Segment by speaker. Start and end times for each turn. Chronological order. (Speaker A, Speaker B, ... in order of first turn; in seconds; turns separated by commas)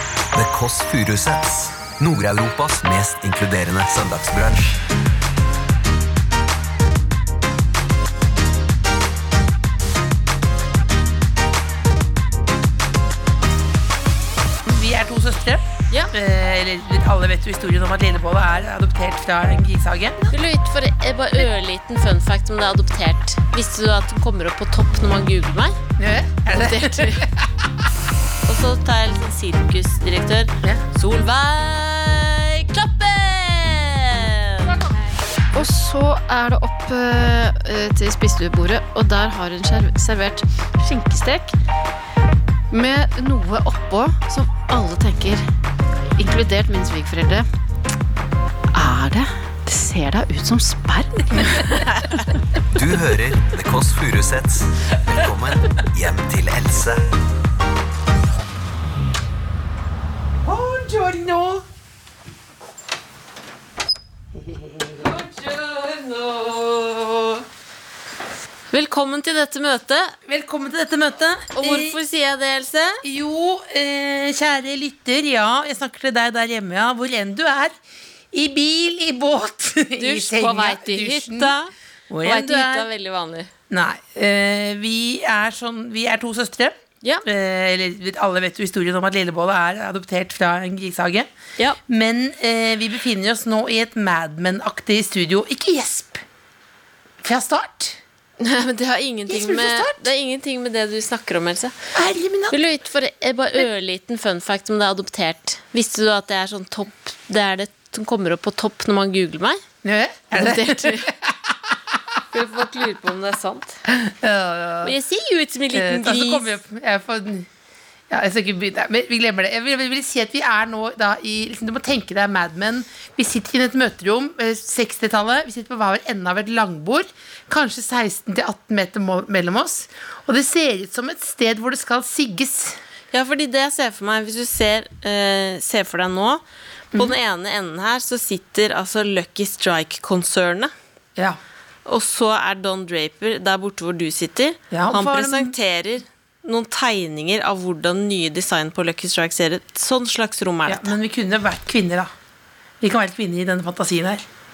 Speaker A: 0.3-4.8, Speaker B: 14.6-20.3, Speaker C: 20.3-25.8, Speaker B: 26.0-27.9, Speaker C: 26.5-27.3, Speaker C: 28.5-34.7, Speaker D: 34.7-41.5, Speaker D: 42.7-45.4, Speaker D: 46.2-47.5, Speaker D: 48.7-51.8, Speaker B: 51.3-52.2, Speaker A: 52.7-57.0, Speaker B: 60.5-61.6, Speaker B: 64.3-65.1, Speaker C: 65.1-66.4, Speaker B: 66.6-67.3, Speaker C: 68.7-70.2, Speaker B: 70.3-72.0, Speaker C: 71.5-73.0, Speaker B: 73.0-77.7, Speaker B: 78.3-81.6, Speaker C: 80.0-83.5, Speaker B: 82.1-82.9, Speaker B: 83.7-91.3, Speaker B: 91.9-96.2, Speaker B: 97.2-98.0, Speaker C: 98.4-101.8, Speaker B: 99.3-100.0, Speaker B: 101.9-102.6, Speaker C: 102.5-109.6, Speaker B: 109.8-112.2, Speaker C: 110.3-111.1, Speaker C: 112.3-113.8, Speaker B: 113.9-115.0, Speaker C: 114.8-116.5, Speaker B: 115.7-117.5, Speaker B: 118.1-132.8, Speaker C: 133.1-136.4, Speaker C: 136.9-140.7, Speaker C: 141.9-150.9, Speaker B: 144.7-145.6, Speaker B: 150.7-152.1, Speaker B: 152.8-154.2